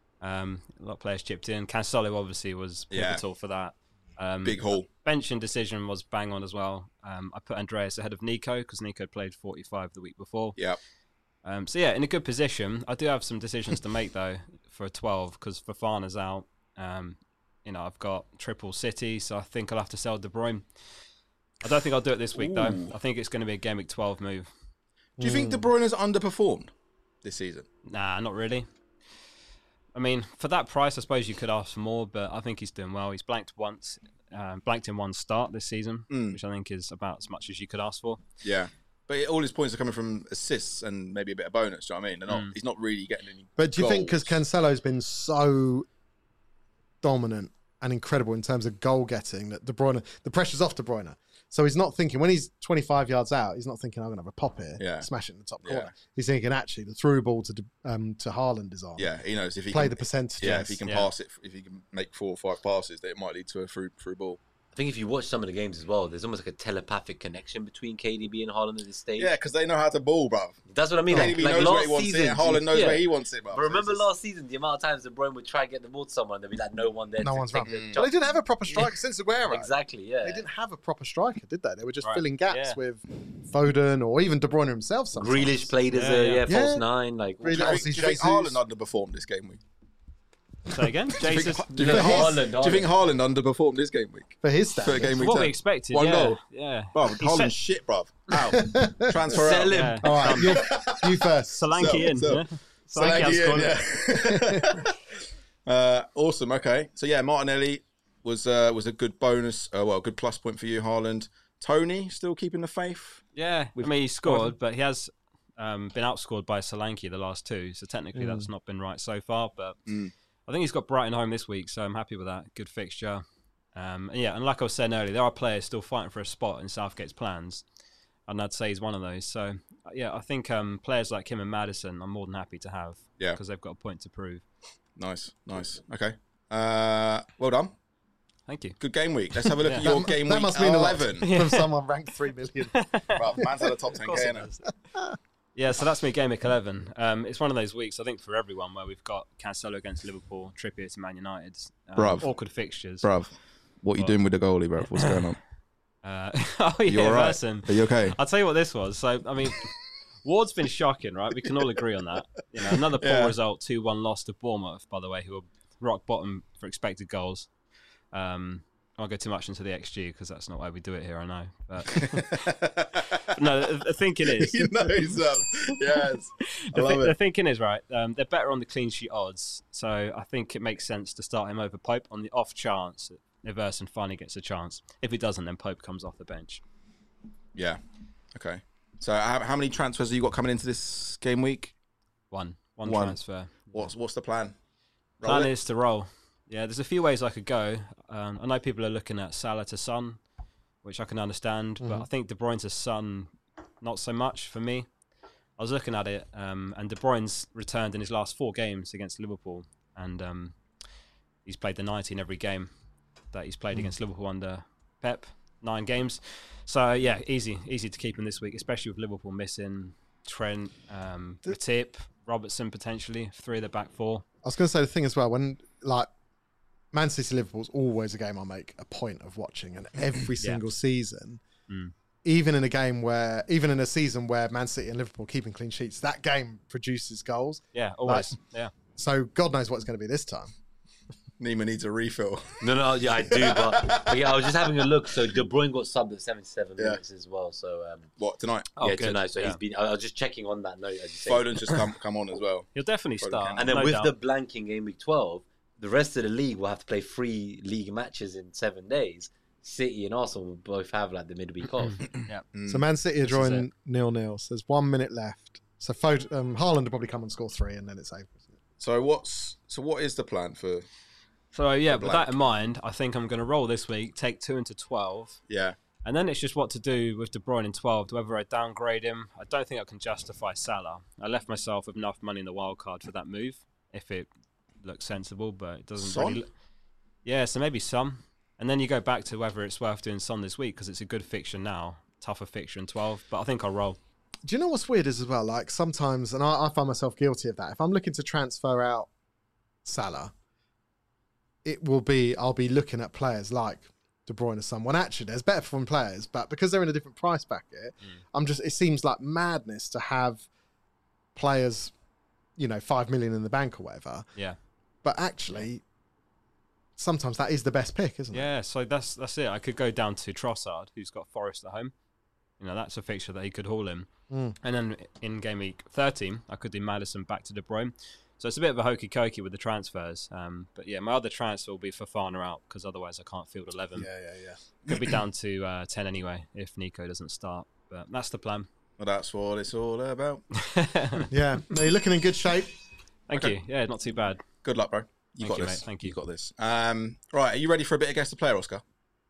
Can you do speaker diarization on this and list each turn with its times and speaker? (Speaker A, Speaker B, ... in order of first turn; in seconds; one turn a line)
Speaker A: 0.2-10.6
Speaker B: 2.9-3.2
Speaker B: 4.4-4.9
Speaker A: 11.4-20.6
Speaker A: 21.6-24.5
Speaker B: 22.3-22.9
Speaker C: 25.2-25.7
Speaker B: 25.2-26.7
Speaker B: 27.2-27.6
Speaker A: 27.9-28.6
Speaker A: 29.9-38.2
Speaker B: 36.1-36.4
Speaker B: 38.4-44.4
Speaker A: 42.3-42.5
Speaker C: 43.6-45.9
Speaker C: 47.0-59.1
Speaker B: 54.8-55.1
Speaker B: 55.6-55.9
Speaker B: 59.0-64.4
Speaker C: 59.7-60.8
Speaker D: 64.7-69.3
Speaker B: 69.2-74.0
Speaker D: 70.7-78.2
Speaker C: 71.1-71.5
Speaker C: 77.2-85.7
Speaker B: 77.6-78.0
Speaker D: 79.5-80.5
Speaker A: 82.0-82.8
Speaker D: 85.1-87.8
Speaker A: 85.9-86.4
Speaker C: 86.5-86.8
Speaker C: 87.4-88.6
Speaker B: 87.5-89.6
Speaker A: 90.7-91.7
Speaker B: 91.2-96.4
Speaker D: 91.7-92.9
Speaker C: 91.9-92.4
Speaker C: 94.4-95.2
Speaker A: 95.2-97.5
Speaker B: 96.9-99.7
Speaker C: 98.4-99.4
Speaker D: 99.3-100.2
Speaker A: 99.7-100.6
Speaker C: 100.0-102.0
Speaker B: 100.4-104.9
Speaker A: 101.5-103.8
Speaker C: 104.1-104.8
Speaker B: 105.7-113.2
Speaker A: 113.3-119.8
Speaker B: 113.8-114.5
Speaker C: 118.1-118.5
Speaker A: 120.5-123.2
Speaker A: 123.7-127.6
Speaker A: 128.3-134.4
Speaker B: 135.0-137.7
Speaker A: 138.5-138.8
Speaker B: 138.8-141.3
Speaker A: 139.4-140.1
Speaker C: 139.8-142.7
Speaker A: 141.2-141.7
Speaker A: 142.7-144.7
Speaker B: 143.1-144.5
Speaker A: 145.5-153.1
Speaker B: 152.0-152.3
Speaker B: 153.0-153.3
Speaker B: 153.8-155.4
Speaker A: 154.9-155.2
Speaker A: 156.0-159.7
Speaker B: 156.9-158.2
Speaker A: 160.2-167.5
Speaker B: 163.0-163.3
Speaker A: 168.1-172.5
Speaker B: 171.9-173.3
Speaker A: 173.3-174.7
Speaker B: 174.2-177.1
Speaker A: 176.7-186.6
Speaker B: 187.5-187.8
Speaker B: 188.3-191.7
Speaker A: 192.3-193.9
Speaker B: 192.8-193.2
Speaker B: 193.7-194.5
Speaker B: 195.2-195.5
Speaker A: 195.2-200.2
Speaker A: 200.8-204.9
Speaker A: 205.6-210.6
Speaker A: 211.4-212.7
Speaker A: 213.3-224.2
Speaker C: 224.4-226.1
Speaker C: 226.9-231.4
Speaker A: 231.7-231.9
Speaker C: 232.2-238.3
Speaker A: 237.7-238.7
Speaker C: 238.9-240.5
Speaker B: 241.4-242.6
Speaker D: 242.6-248.1
Speaker B: 243.3-244.4
Speaker B: 248.2-248.7
Speaker A: 248.8-249.6
Speaker D: 248.8-251.6
Speaker B: 251.2-252.7
Speaker A: 252.7-254.1
Speaker B: 253.2-253.7
Speaker D: 253.6-262.0
Speaker B: 262.5-262.8
Speaker C: 262.7-268.4
Speaker A: 263.3-263.7
Speaker B: 268.8-270.9
Speaker A: 271.5-275.4
Speaker B: 271.9-272.3
Speaker B: 275.5-275.8
Speaker A: 276.0-284.3
Speaker A: 284.8-286.5
Speaker B: 286.0-286.4
Speaker A: 287.2-294.0
Speaker C: 294.4-299.1
Speaker C: 299.8-300.3
Speaker C: 301.6-310.4
Speaker C: 311.3-311.9
Speaker C: 312.6-314.2
Speaker C: 315.0-315.8
Speaker C: 317.0-318.5
Speaker A: 318.3-321.9
Speaker A: 322.6-324.1
Speaker A: 324.6-334.1
Speaker C: 333.9-334.6
Speaker A: 334.9-338.7
Speaker B: 339.0-340.4
Speaker A: 340.6-341.3
Speaker C: 341.3-342.7
Speaker A: 343.3-344.4
Speaker B: 344.6-348.8
Speaker A: 345.4-346.2